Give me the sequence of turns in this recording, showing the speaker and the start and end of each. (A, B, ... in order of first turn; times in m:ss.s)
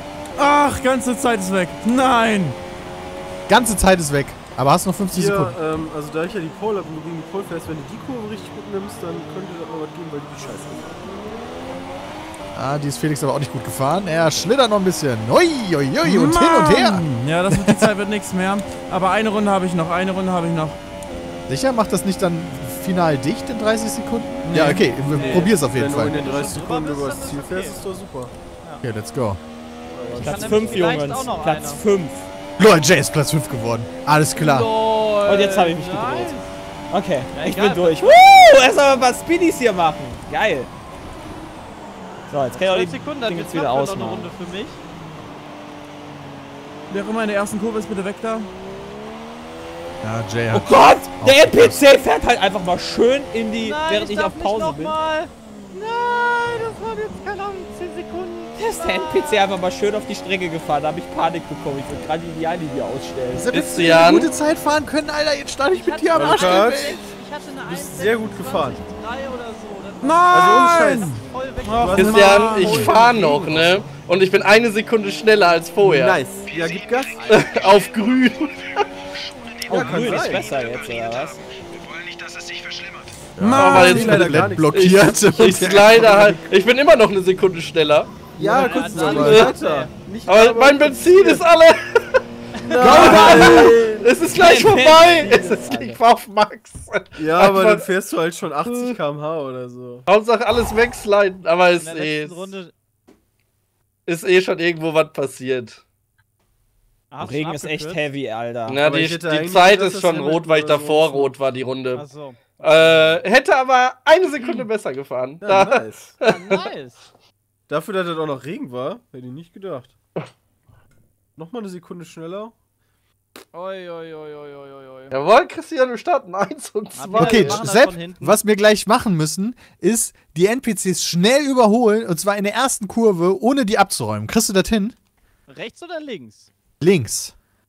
0:00.4-0:02.6 A
0:03.5-0:05.6 B
0:05.1-0:10.9 C
0:12.5-0:17.9 B
0:16.0-0:20.8 A
0:21.5-0:26.2 B
0:24.4-0:25.0 A
0:25.0-0:27.9 D
0:25.1-0:28.3 C
0:28.8-0:29.4 B
0:29.9-0:31.2 C
0:30.1-0:31.8 D
0:30.2-0:32.3 E
0:32.6-0:34.7 B
0:34.4-0:36.6 D
0:35.2-0:36.4 E
0:36.9-0:40.7 E
0:37.3-0:38.4 D
0:42.3-0:44.3 E
0:42.5-0:44.8 D
0:46.9-0:48.5 A
0:50.0-0:51.8 B
0:50.5-0:55.0 E
0:53.6-0:59.4 D
0:58.6-1:03.6 E
1:03.3-1:07.0 B
1:03.5-1:04.3 F
1:05.7-1:13.2 D
1:06.1-1:07.0 C
1:07.6-1:08.8 C
1:10.0-1:13.0 A
1:10.3-1:13.8 C
1:12.0-1:16.2 F
1:15.8-1:17.2 C
1:16.4-1:23.3 G
1:17.2-1:17.7 D
1:17.3-1:18.8 F
1:19.7-1:20.5 C
1:19.7-1:21.4 E
1:23.4-1:26.5 B
1:23.4-1:24.4 A
1:23.6-1:28.3 F
1:23.8-1:26.3 C
1:28.4-1:31.5 C
1:28.4-1:29.9 D
1:28.7-1:29.2 E
1:28.9-1:29.4 B
1:29.1-1:29.6 F
1:30.3-1:32.0 F
1:32.6-1:33.2 D
1:32.7-1:34.1 C
1:32.8-1:37.9 F
1:32.8-1:36.0 E
1:32.9-1:33.6 B
1:37.2-1:40.0 C
1:38.6-1:39.0 F
1:40.1-1:42.5 F
1:41.7-1:42.7 D
1:44.1-1:45.8 F
1:47.1-1:48.1 D
1:47.2-1:48.8 E
1:48.7-1:52.1 F
1:48.8-1:51.4 C
1:51.9-1:52.9 D
1:52.6-1:56.6 F
1:55.4-1:56.2 C
1:56.2-1:57.0 D
1:57.7-1:59.9 C
2:01.4-2:02.6 C
2:03.5-2:05.2 D
2:05.1-2:07.7 F
2:07.0-2:08.4 D
2:07.2-2:15.0 B
2:15.5-2:16.5 D
2:16.8-2:17.4 B